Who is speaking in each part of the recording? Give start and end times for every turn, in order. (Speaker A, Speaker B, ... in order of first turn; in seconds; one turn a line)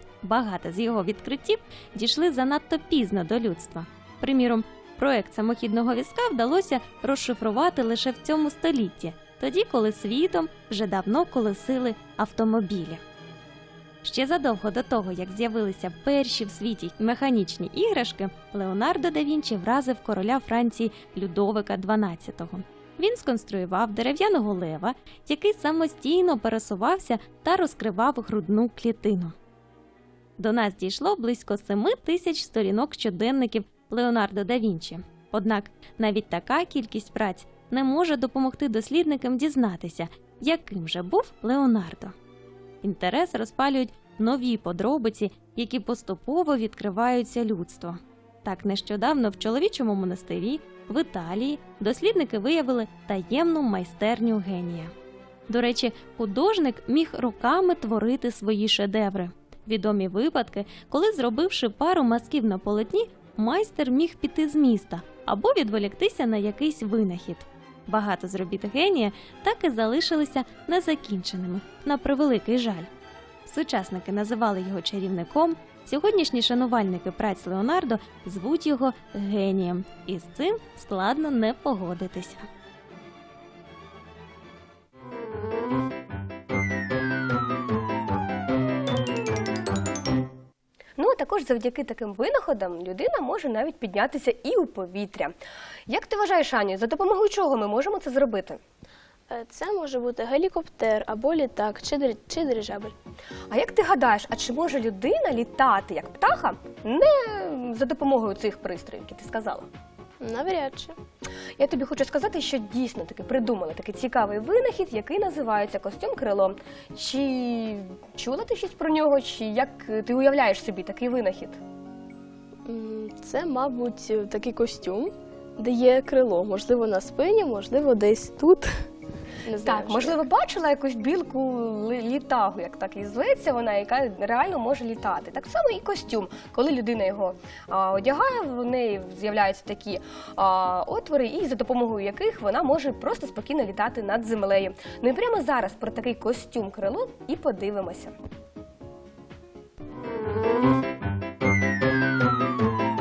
Speaker A: 0.2-13.0
Speaker A: 14.0-29.3
Speaker A: 30.4-42.1
Speaker A: 42.8-54.9
Speaker A: 55.5-72.9
Speaker A: 73.5-82.5
Speaker B: 91.0-95.3
Speaker B: 95.9-98.6
Speaker C: 99.3-102.9
Speaker B: 103.5-109.7
Speaker C: 110.2-111.0
Speaker B: 111.6-121.6
Speaker C: 122.7-128.7
Speaker C: 129.4-130.2
Speaker B: 129.6-148.1